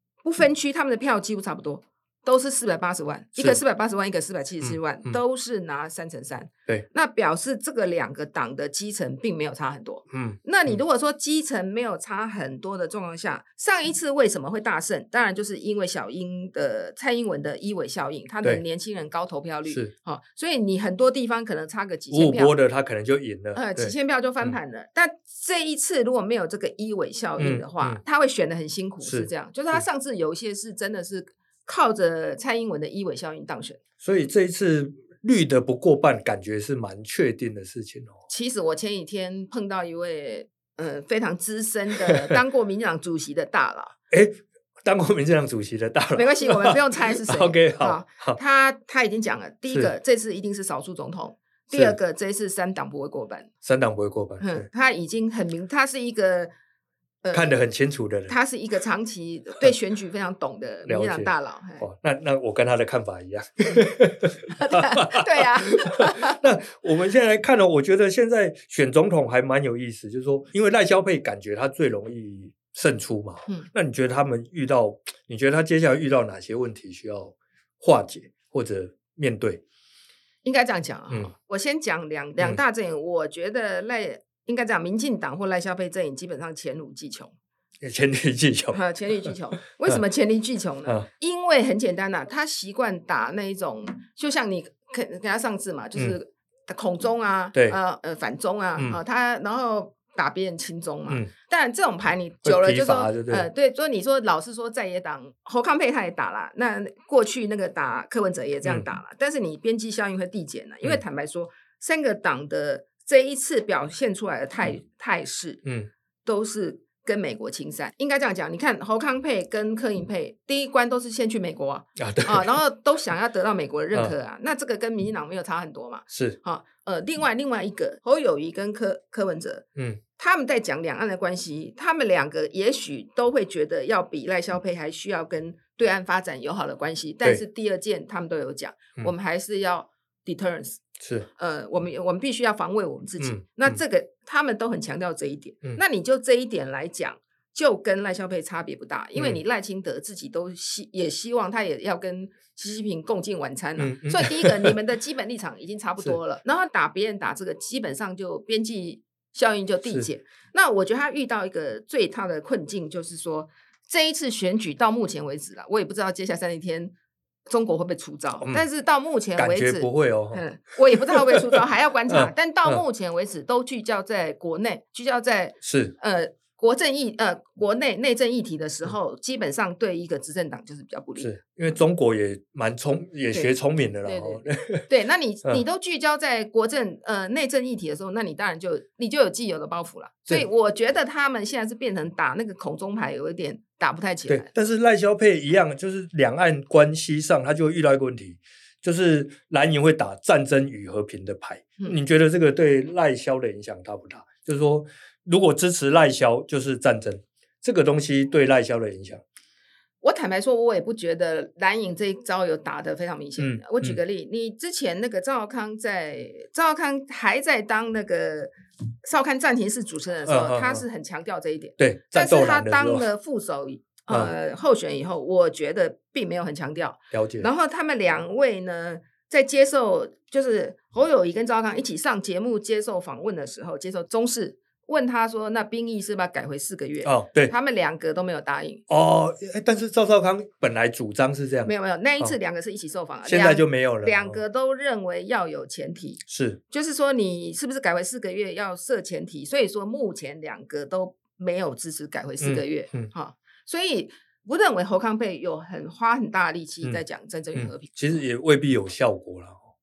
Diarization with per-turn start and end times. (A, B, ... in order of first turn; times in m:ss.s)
0:00.2-0:22.6 A
0:04.6-0:05.2 B
0:10.1-0:10.8 B
0:22.1-0:24.6 B
0:23.6-0:33.8 A
0:27.4-0:28.0 B
0:29.0-0:29.8 B
0:34.0-0:38.1 B
0:38.3-0:44.0 A
0:42.1-0:42.4 B
0:44.1-0:48.4 B
0:46.2-0:53.5 A
0:53.6-0:54.7 B
0:54.4-0:56.5 A
0:57.2-0:57.5 A
0:57.3-0:58.3 B
0:58.3-1:01.8 A
1:00.8-1:19.6 B
1:04.5-1:06.5 A
1:20.4-1:27.3 A
1:27.8-1:29.3 B
1:28.7-1:55.6 A
1:42.4-1:43.5 B
1:56.2-2:09.7 A
2:02.0-2:02.6 B
2:06.1-2:06.4 B
2:10.2-2:20.8 A
2:21.0-2:21.3 B
2:21.4-2:46.9 A
2:23.2-2:23.8 B
2:33.8-2:34.8 B
2:47.5-3:01.3 A
2:49.4-2:52.8 B
2:55.6-2:56.0 B
3:01.2-3:04.9 B
3:04.0-3:14.5 A
3:14.3-3:29.2 B
3:30.0-3:38.5 A
3:33.4-3:34.0 B
3:39.0-3:58.8 A
3:40.3-3:40.8 B
3:41.8-3:43.1 B
3:47.1-3:47.5 B
3:57.0-3:57.5 B
3:58.9-4:02.4 B
4:01.7-4:18.0 A
4:03.2-4:04.4 B
4:06.3-4:06.6 B
4:12.4-4:13.1 B
4:17.5-4:19.6 B